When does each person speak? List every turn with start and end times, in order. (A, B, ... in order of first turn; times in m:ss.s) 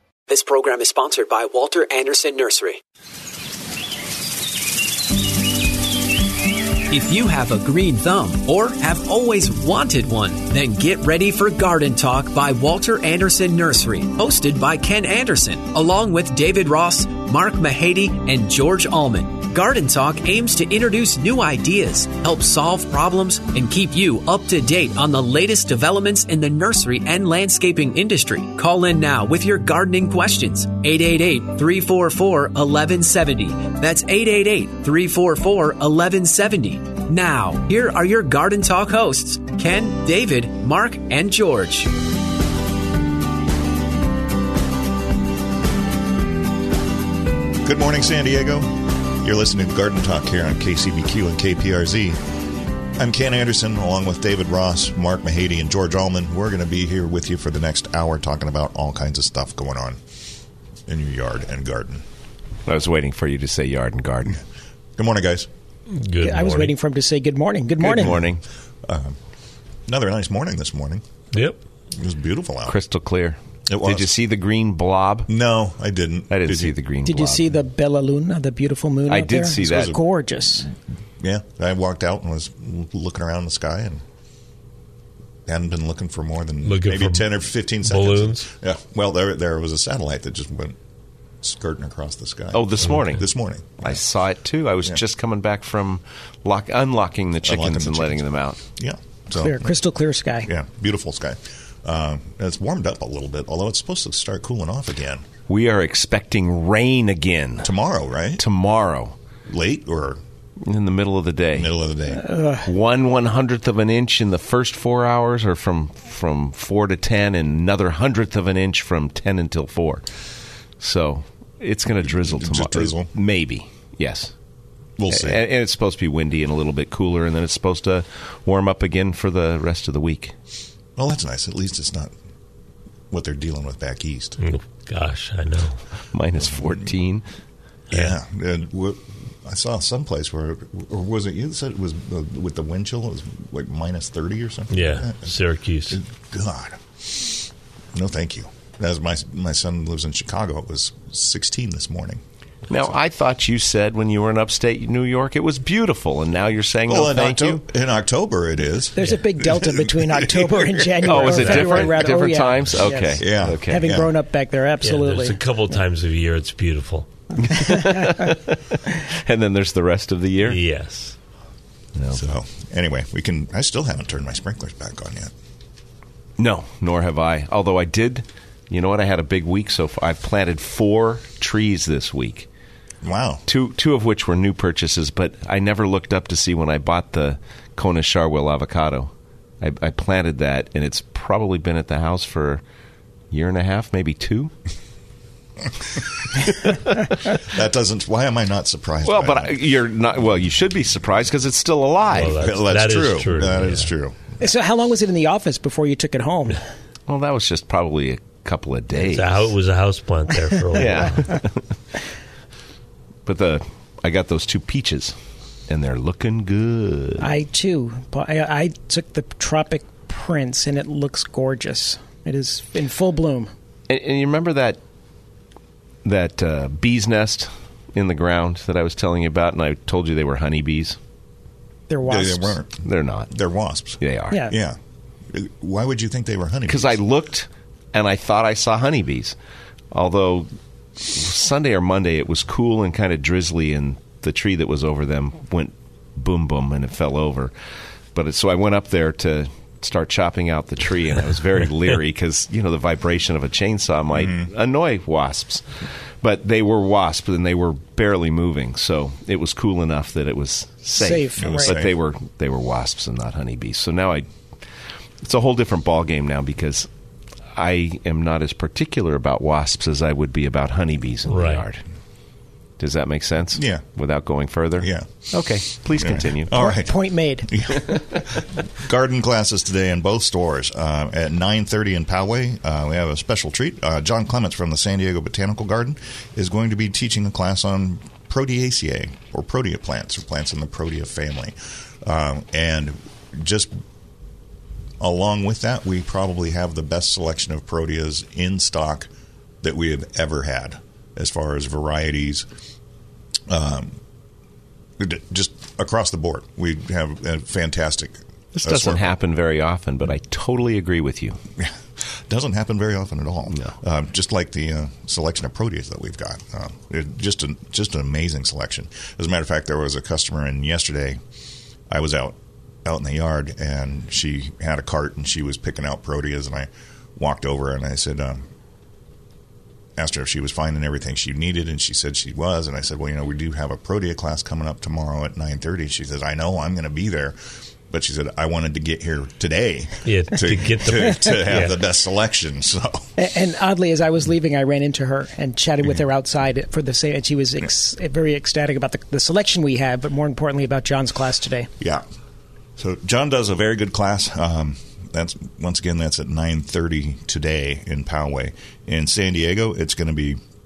0:00.3-0:02.8 A
0:06.9-0:41.9 A
0:47.6-0:52.2 B
0:53.0-1:00.0 B
1:00.9-1:02.0 B
1:02.6-1:04.4 C
1:05.0-1:05.5 B
1:05.9-1:06.7 D
1:06.2-1:08.2 E
1:07.8-1:08.4 C
1:08.8-1:09.2 B
1:09.9-1:11.0 B
1:11.3-1:11.6 D
1:11.9-1:12.8 B
1:12.6-1:15.3 C
1:13.7-1:14.1 B
1:15.3-1:16.8 B
1:16.3-1:17.5 C
1:17.0-1:20.7 E
1:19.1-1:20.0 C
1:21.2-1:24.0 B
1:25.4-1:30.8 B
1:26.6-1:27.3 D
1:27.8-1:28.4 D
1:31.4-1:34.0 B
1:32.5-1:33.3 C
1:33.8-1:38.6 C
1:37.4-1:39.8 B
1:39.3-1:40.5 E
1:40.4-1:45.2 B
1:45.5-1:47.7 C
1:47.6-1:48.4 B
1:48.4-1:49.2 C
1:49.5-1:50.2 B
1:50.6-1:51.7 C
1:51.5-1:52.2 B
1:52.2-1:52.7 E
1:52.6-2:00.0 C
2:00.8-2:04.3 C
2:02.0-2:03.1 B
2:05.0-2:05.4 B
2:05.1-2:10.3 C
2:11.0-2:12.1 B
2:13.1-2:14.4 B
2:14.4-2:15.8 D
2:16.1-2:17.2 C
2:17.9-2:25.3 B
2:24.7-2:26.0 D
2:25.9-2:32.2 B
2:32.7-2:37.6 C
2:36.9-2:40.9 B
2:39.0-2:45.4 E
2:41.0-2:44.0 C
2:41.4-2:41.8 D
2:43.2-2:44.1 B
2:44.8-2:47.1 D
2:47.4-2:50.6 C
2:50.4-2:51.2 D
2:52.1-2:55.3 B
2:56.4-3:02.5 C
3:03.0-3:03.4 B
3:03.5-3:12.6 C
3:13.3-3:14.5 C
3:17.4-3:19.6 B
3:19.0-3:22.4 C
3:22.1-3:23.9 D
3:22.3-3:24.2 B
3:24.4-3:26.6 E
3:27.1-3:29.5 C
3:28.9-3:31.4 D
3:30.8-3:31.5 C
3:33.2-3:35.2 C
3:35.7-3:37.3 C
3:37.2-3:43.5 E
3:43.9-3:44.8 C
3:46.0-3:51.0 C
3:51.9-3:52.6 E
3:52.0-3:54.8 B
3:52.8-3:53.3 C
3:54.0-3:54.5 C
3:55.3-3:57.0 B
3:56.7-3:59.3 C
3:59.9-4:07.5 C
4:08.1-4:15.6 C
4:14.1-4:14.5 B
4:16.2-4:24.2 C
4:21.0-4:21.8 E
4:21.4-4:21.9 B
4:25.2-4:26.9 C
4:27.5-4:31.8 C
4:31.3-4:31.6 D
4:32.8-4:36.5 C
4:33.5-4:33.8 B
4:34.8-4:53.8 B
4:36.5-4:37.8 E
4:55.0-4:59.1 B
4:59.6-5:02.5 B
5:03.5-5:04.0 B
5:05.0-5:09.1 B
5:08.6-5:11.4 C
5:11.6-5:21.2 B
5:21.9-5:28.4 B
5:30.0-5:37.4 B
5:37.9-5:43.1 B
5:40.0-5:41.8 D
5:43.2-5:51.7 E
5:52.8-6:00.4 B